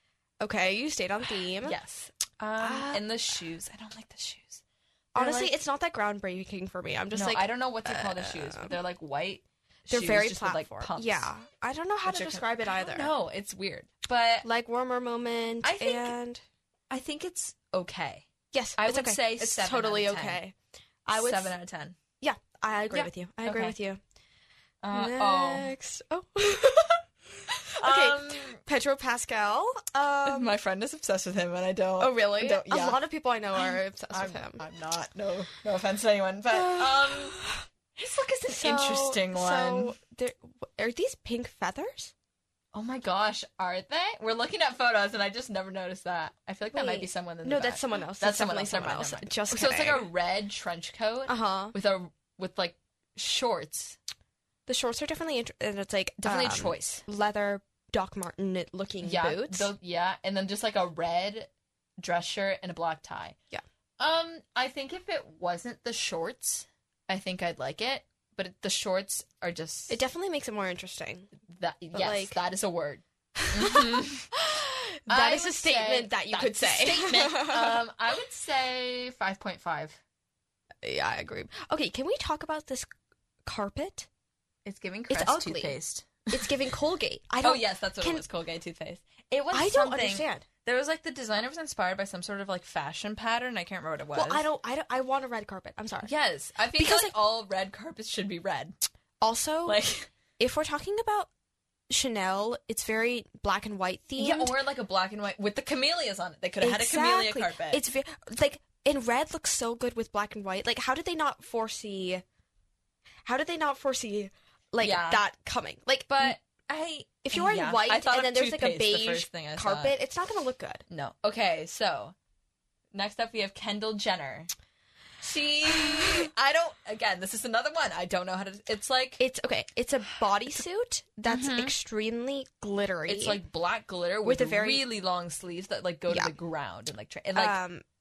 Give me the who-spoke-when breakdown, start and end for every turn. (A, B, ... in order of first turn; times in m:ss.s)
0:00.4-0:01.8 A
0:01.6-0:04.6 B
0:02.6-0:03.0 A
0:05.1-0:05.5 B
0:05.1-0:08.8 A
0:07.1-0:11.3 B
0:09.9-0:13.1 A
0:12.1-0:14.4 B
0:14.4-0:16.4 A
0:15.6-0:16.1 B
0:16.9-0:20.4 B
0:18.5-0:21.5 A
0:21.1-0:22.0 B
0:22.2-0:24.0 A
0:22.9-0:23.8 B
0:24.8-0:25.7 B
0:24.9-0:30.6 A
0:27.7-0:28.6 B
0:30.2-0:33.0 B
0:32.0-0:34.6 A
0:33.5-0:37.4 B
0:36.5-0:42.1 A
0:38.0-0:40.0 B
0:42.7-0:54.0 B
0:46.7-0:50.1 A
0:51.3-0:51.7 A
0:54.6-0:59.7 A
0:56.2-0:57.0 B
0:59.0-1:03.4 B
1:04.0-1:10.0 B
1:09.9-1:11.3 A
1:11.4-1:14.3 B
1:11.9-1:12.4 A
1:13.4-1:17.8 A
1:15.1-1:20.0 B
1:20.8-1:22.9 A
1:23.4-1:24.1 A
1:24.6-1:26.5 B
1:25.1-1:25.8 A
1:26.3-1:28.2 A
1:27.4-1:34.4 B
1:29.5-1:30.5 A
1:34.1-1:36.1 A
1:36.0-1:38.8 B
1:36.7-1:37.1 A
1:39.2-1:39.8 A
1:39.6-1:40.1 B
1:40.4-1:41.3 A
1:41.9-1:44.5 A
1:44.2-1:47.8 B
1:46.6-1:52.2 A
1:53.2-1:56.4 A
1:54.8-1:55.2 B
1:56.1-2:00.0 B
1:57.2-2:00.8 A
2:00.9-2:02.1 B
2:02.9-2:04.5 B
2:05.2-2:09.2 B
2:05.7-2:06.3 A
2:09.2-2:13.4 A
2:11.2-2:11.7 B
2:13.1-2:17.6 B
2:14.2-2:14.8 A
2:16.1-2:16.3 A
2:17.4-2:17.8 A